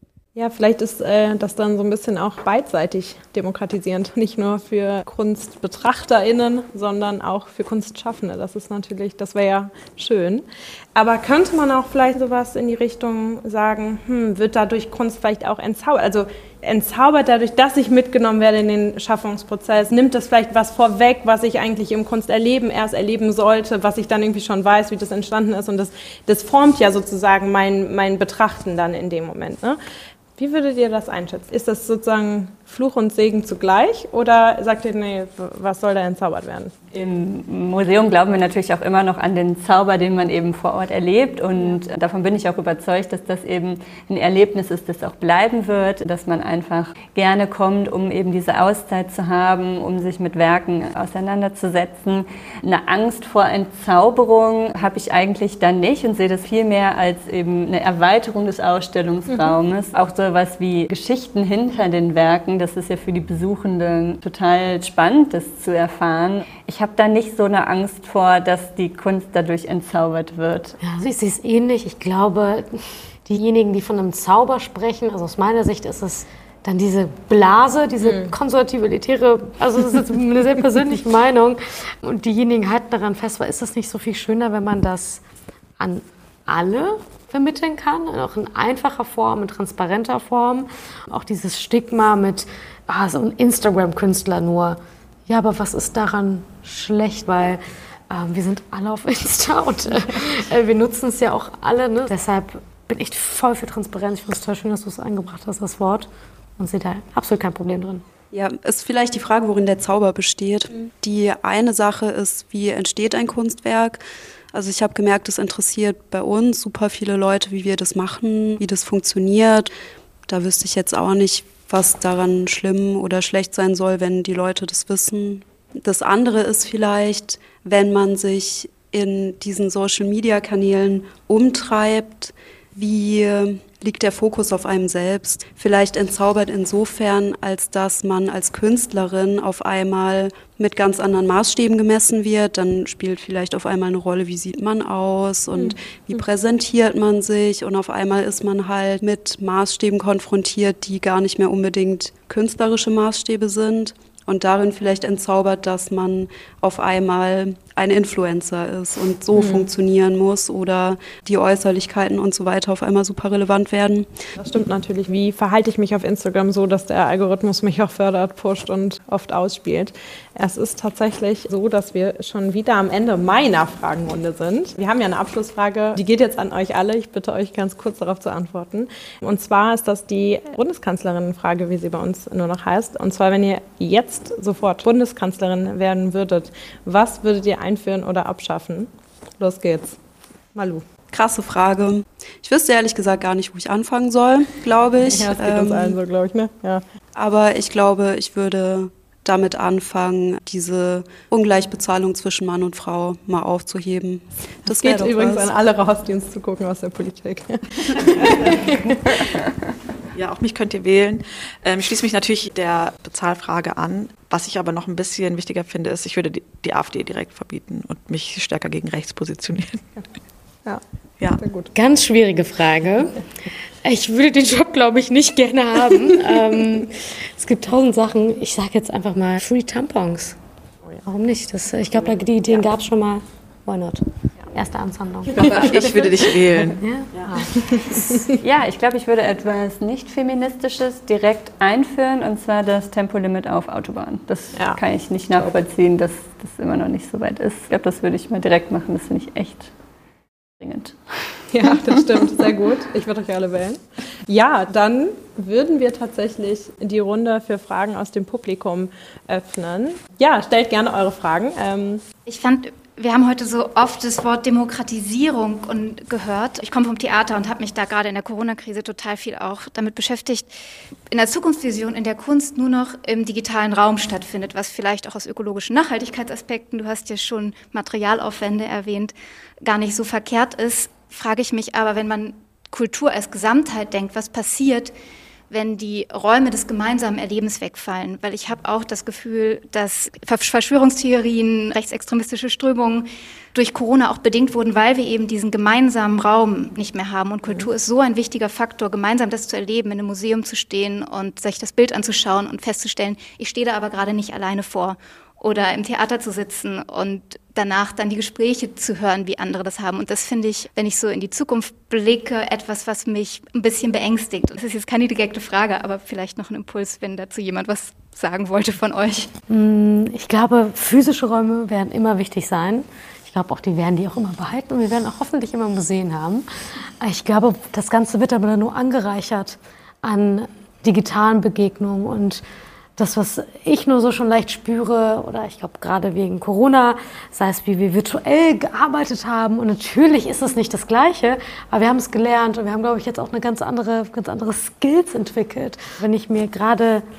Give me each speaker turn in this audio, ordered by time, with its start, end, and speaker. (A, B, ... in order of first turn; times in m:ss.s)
0:00.3-0:29.8 A
0:30.4-0:36.7 A
0:36.9-1:10.8 B
0:59.3-0:59.5 A
1:10.8-1:25.2 C
1:18.0-1:18.3 A
1:25.8-1:48.0 C
1:48.3-1:54.0 D
1:54.5-1:59.7 D
2:00.3-2:44.1 D
2:39.3-2:39.7 A
2:44.4-3:10.0 A
3:10.5-3:10.8 A
3:11.1-3:16.0 D
3:15.0-3:16.8 A
3:17.1-3:25.5 D
3:24.7-3:29.3 A
3:28.2-3:28.5 E
3:30.1-3:39.8 E
3:41.4-3:41.7 A
3:41.7-3:43.2 C
3:43.8-3:50.4 C
3:51.0-3:55.8 C
3:55.3-3:57.3 E
3:55.4-3:55.7 A
3:56.8-3:58.2 C
3:57.6-3:58.4 A
3:58.4-4:09.7 B
4:10.6-4:12.3 B
4:11.5-4:22.0 A
4:22.2-4:30.5 F
4:31.1-4:44.9 F
4:45.5-5:19.3 F
5:19.5-5:26.4 C
5:27.0-5:32.4 C
5:33.0-5:47.0 C